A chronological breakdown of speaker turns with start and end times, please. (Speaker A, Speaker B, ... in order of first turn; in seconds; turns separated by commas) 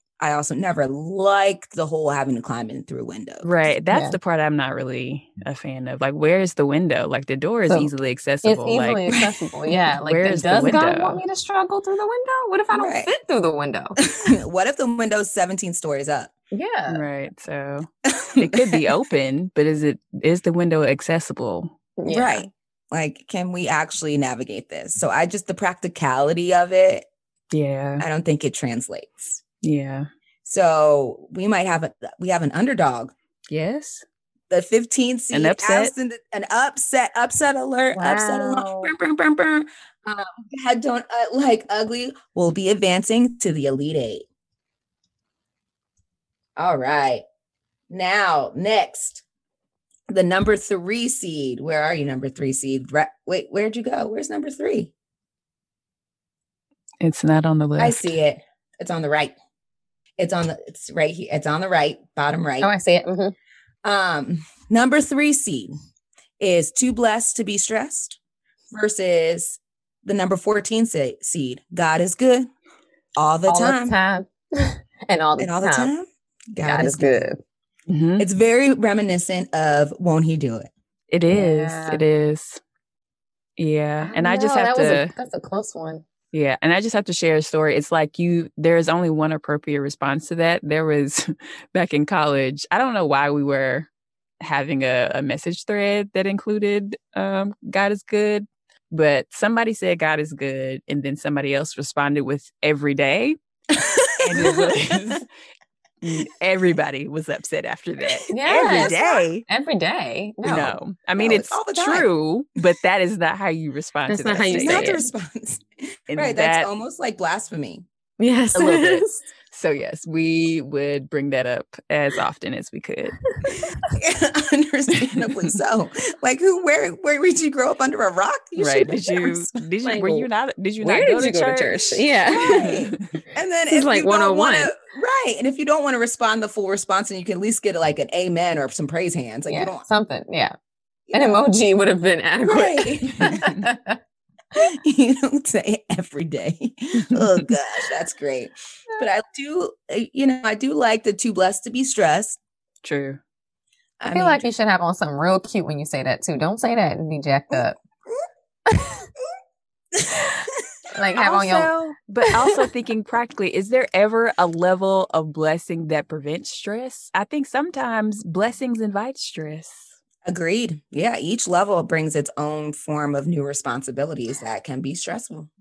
Speaker A: 0.2-3.5, Speaker B: 3.4-9.1, Speaker C: 3.9-4.2, Speaker C: 8.4-14.0, Speaker B: 10.0-11.2, Speaker A: 12.7-13.1, Speaker A: 14.0-16.3, Speaker C: 16.5-17.0, Speaker B: 16.9-17.9, Speaker A: 18.0-18.9, Speaker B: 18.4-21.7, Speaker C: 22.0-22.5, Speaker A: 22.1-27.1, Speaker B: 27.5-28.0, Speaker A: 28.0-29.4, Speaker B: 29.6-30.1, Speaker A: 30.4-33.1, Speaker B: 33.5-34.0, Speaker A: 34.5-44.2, Speaker B: 35.3-35.9, Speaker C: 37.9-38.9, Speaker A: 46.6-47.2, Speaker A: 47.9-49.2, Speaker A: 50.1-54.9, Speaker B: 57.0-58.1, Speaker A: 57.8-59.3, Speaker A: 60.2-62.7, Speaker C: 62.6-63.3, Speaker A: 63.8-65.7, Speaker A: 66.4-68.2, Speaker A: 68.7-72.5, Speaker A: 73.2-73.9, Speaker C: 73.5-75.9, Speaker A: 75.4-77.2, Speaker C: 76.6-77.4, Speaker B: 77.9-78.2, Speaker A: 78.2-80.7, Speaker B: 81.1-82.6, Speaker C: 81.3-82.0, Speaker B: 83.6-85.1, Speaker C: 84.0-86.0, Speaker B: 86.3-93.9, Speaker B: 94.4-103.4, Speaker A: 103.7-105.2, Speaker B: 104.2-105.3, Speaker B: 106.0-109.4, Speaker C: 108.3-110.8, Speaker A: 108.5-109.2, Speaker B: 110.4-115.0, Speaker A: 111.2-112.1, Speaker C: 114.1-115.0, Speaker A: 114.5-117.8, Speaker B: 116.1-116.7, Speaker C: 118.2-119.2, Speaker B: 118.5-123.2, Speaker C: 123.4-123.9, Speaker A: 123.9-129.6, Speaker B: 128.6-133.2, Speaker C: 129.8-130.3, Speaker C: 130.8-132.7, Speaker A: 132.3-139.8, Speaker C: 133.7-134.7, Speaker C: 139.5-140.5, Speaker A: 141.1-141.4, Speaker C: 141.1-144.0, Speaker A: 142.4-143.5, Speaker A: 144.5-152.4, Speaker B: 152.8-153.2, Speaker A: 154.0-154.4, Speaker C: 154.1-157.8, Speaker A: 157.5-158.2, Speaker C: 158.7-159.1, Speaker A: 159.9-160.3, Speaker C: 160.9-161.7, Speaker B: 161.2-169.9, Speaker C: 162.2-162.6, Speaker A: 170.2-175.5